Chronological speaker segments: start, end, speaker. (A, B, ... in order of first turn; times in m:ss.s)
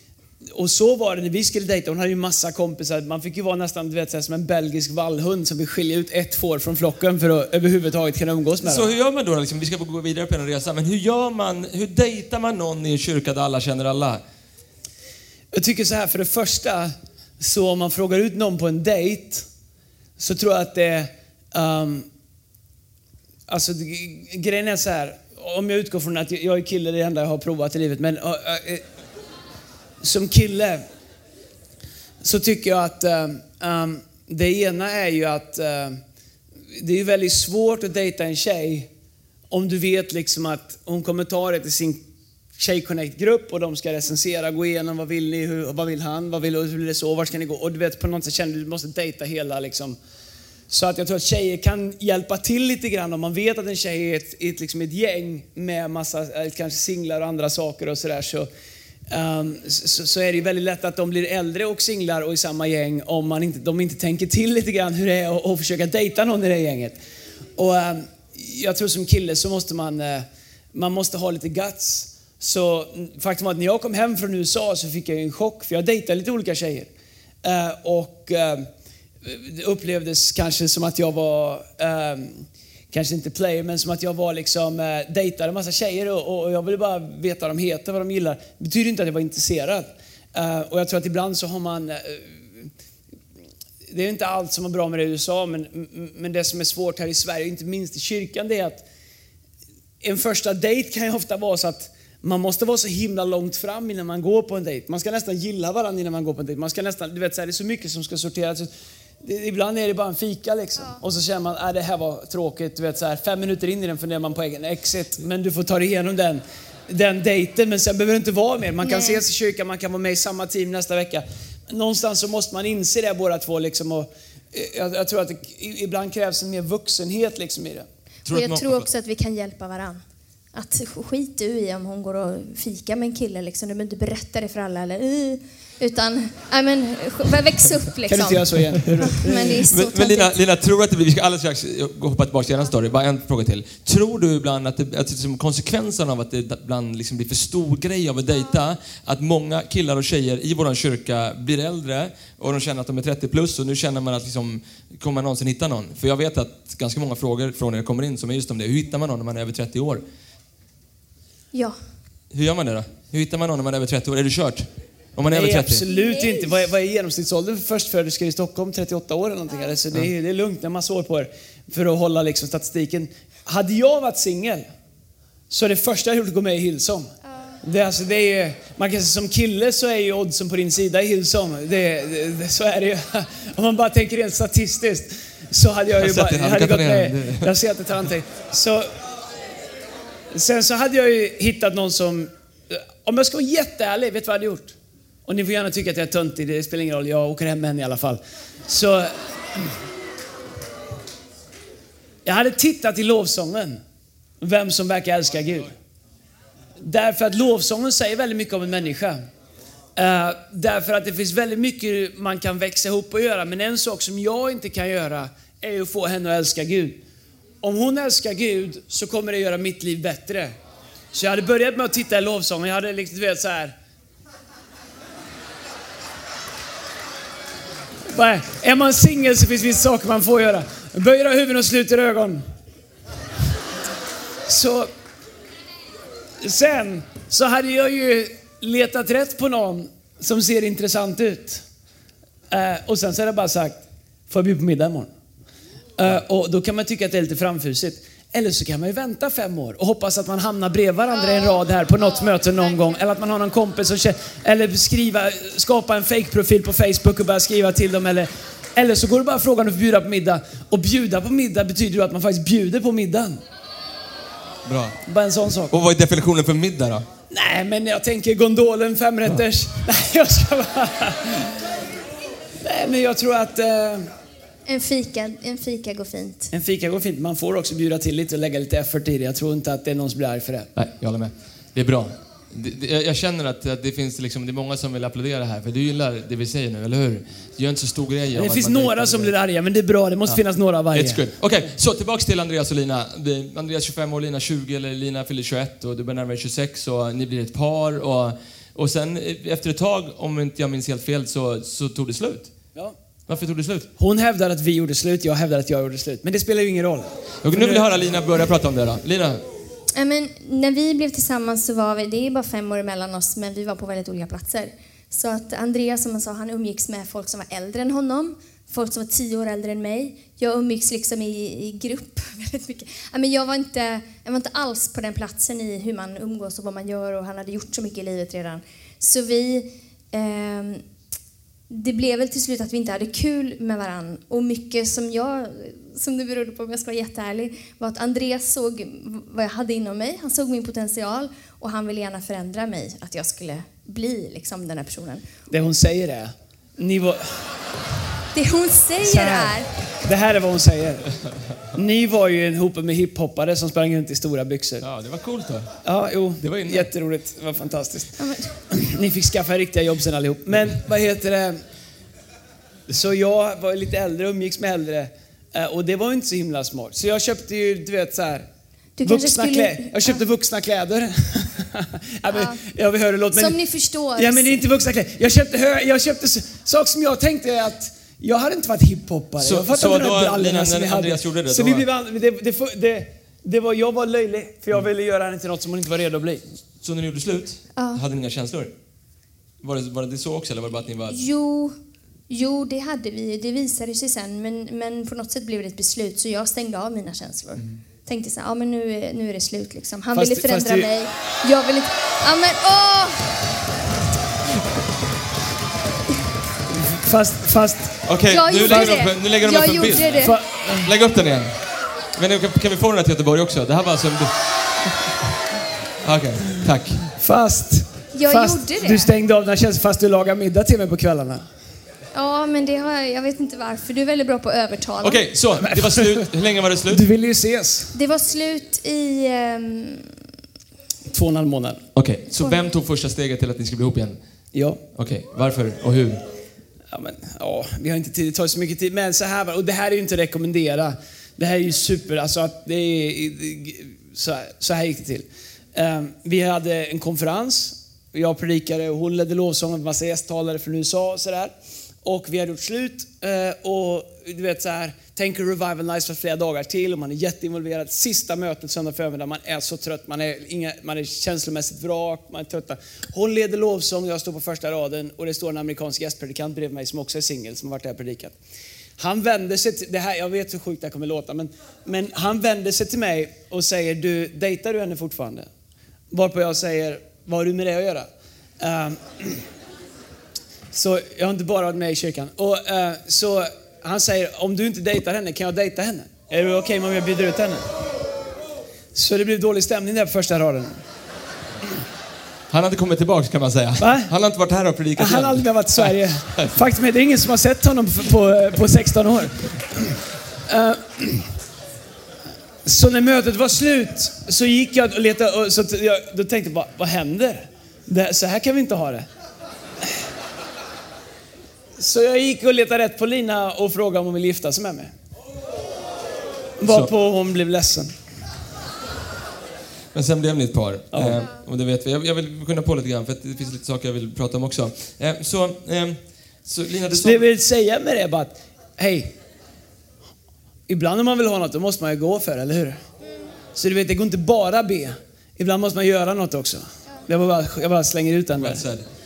0:00.5-0:08.9 A
0:08.6-0:14.2 B
0:15.5-0:19.5 A
0:20.2-0:22.1 A
0:23.5-0:28.8 A
0:30.0-0:30.8 A
0:32.2-0:36.0 A
0:36.7-0:38.9 A
0:39.5-0:42.0 A
0:42.6-0:50.0 A
0:50.7-0:58.5 A
0:59.1-1:07.0 A
1:07.6-1:16.9 A
1:17.4-1:18.7 A
1:19.2-1:32.7 A
1:33.9-1:38.8 A
1:40.0-1:48.7 A
1:49.2-2:07.9 A
1:58.8-1:59.2 C
2:08.2-2:08.8 B
2:08.3-2:10.0 C
2:10.5-2:20.3 C
2:18.1-2:19.5 A
2:19.5-2:40.0 B
2:41.5-2:41.8 C
2:42.3-2:45.8 B
2:45.3-2:54.6 A
2:45.9-2:46.6 C
2:55.5-3:08.9 A
3:06.0-3:07.5 B
3:10.3-3:19.7 A
3:22.2-3:23.8 A
3:24.4-3:25.7 A
3:26.8-3:29.2 A
3:30.0-3:37.0 A
3:37.6-3:40.5 A
3:41.1-3:43.8 A
3:48.1-3:52.4 A
3:54.4-3:54.9 A
3:56.4-4:01.6 A
4:02.5-4:05.1 A
4:06.0-4:23.4 A
4:24.6-4:25.0 B
4:25.0-4:25.7 A
4:25.7-4:27.0 B
4:27.3-4:31.8 A
4:32.6-4:34.1 A
4:34.7-4:36.5 C
4:36.5-4:40.7 A
4:40.8-4:49.3 B
4:48.3-4:51.3 A
4:50.9-5:02.5 B
5:03.3-5:03.9 B
5:04.0-5:07.8 A
5:07.4-5:09.4 B
5:09.9-5:30.8 C
5:31.7-5:45.2 C
5:45.5-5:47.4 A
5:48.3-5:49.7 C
5:49.0-5:51.0 A
5:51.7-5:54.8 A
5:54.8-5:55.7 B
5:55.8-6:01.6 A
5:56.4-5:56.9 B
5:58.2-5:58.5 C
6:02.9-6:08.5 A
6:09.0-6:10.2 C
6:09.0-6:13.6 A
6:12.3-6:12.6 C
6:13.3-6:14.6 C
6:14.2-6:26.4 A
6:19.4-6:21.8 B
6:26.8-6:28.7 B
6:27.7-6:28.0 C
6:29.6-6:31.2 B
6:31.1-6:31.8 C
6:32.3-6:43.3 C
6:40.1-6:40.9 A
6:46.9-6:48.1 A
6:48.0-6:51.6 B
6:48.3-6:50.4 C
6:48.6-6:49.0 A
6:50.2-6:50.9 A
6:52.2-6:54.3 B
6:56.0-6:57.1 B
6:57.2-7:01.4 A
6:58.1-6:59.1 C
7:02.1-7:05.2 C
7:05.0-7:07.0 B
7:05.6-7:06.3 A
7:06.9-7:07.9 A
7:07.9-7:10.1 C
7:11.1-7:11.8 A
7:11.9-7:14.2 B
7:14.5-7:14.8 A
7:14.9-7:16.2 B
7:16.9-7:31.5 A
7:32.0-7:48.3 A
7:49.0-7:55.5 A
7:56.1-7:58.1 A
7:58.6-7:59.5 A
8:00.7-8:07.6 A
8:08.9-8:10.8 A
8:12.5-8:16.5 B
8:13.8-8:14.1 A
8:15.0-8:21.3 A
8:22.6-8:29.1 A
8:31.8-8:34.9 A
8:36.6-8:36.9 B
8:36.6-8:38.0 A
8:39.9-8:47.2 B
8:40.9-8:41.2 A
8:46.9-8:49.2 A
8:50.7-8:52.8 A
8:53.5-8:58.6 A
8:58.4-8:58.8 B